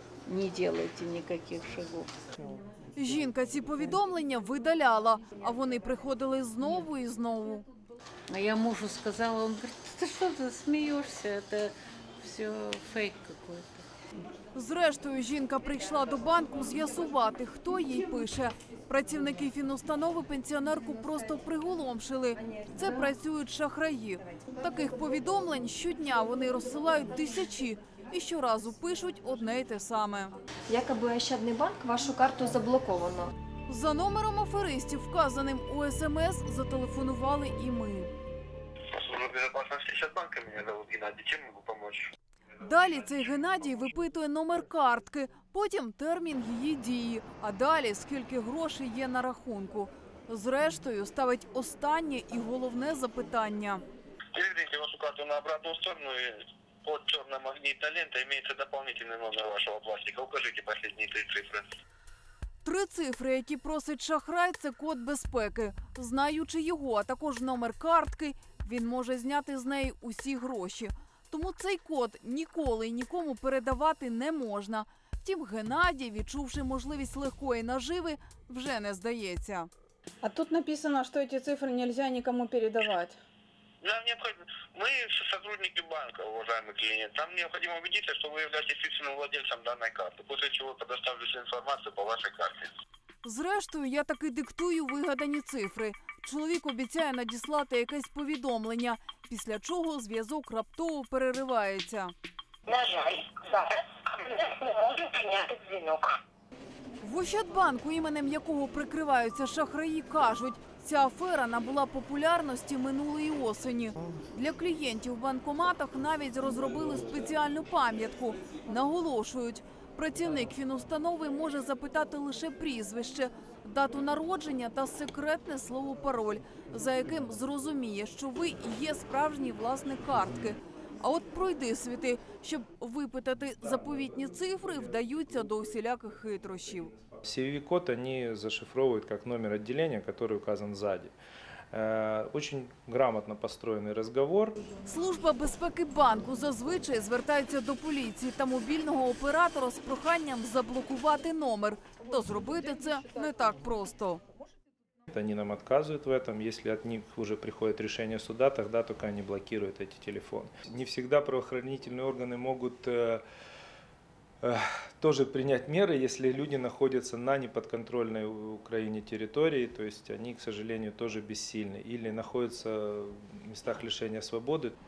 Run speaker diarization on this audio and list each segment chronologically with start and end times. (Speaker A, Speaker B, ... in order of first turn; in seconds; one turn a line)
Speaker A: 0.2-2.1
Speaker B: 3.0-7.6
Speaker A: 8.3-13.8
Speaker B: 14.5-30.3
Speaker C: 30.7-33.3
Speaker B: 33.7-38.1
Speaker D: 38.9-42.1
Speaker B: 42.6-53.8
Speaker D: 54.3-61.7
Speaker B: 62.6-79.7
Speaker E: 80.2-83.2
Speaker D: 83.8-92.7
Speaker B: 93.2-102.1
Speaker F: 102.7-106.2
Speaker B: 107.0-136.9
Speaker G: 137.2-141.2
Speaker G: 141.7-144.6
Speaker B: 144.8-154.2
Speaker G: 155.1-163.2
Speaker G: 164.4-174.8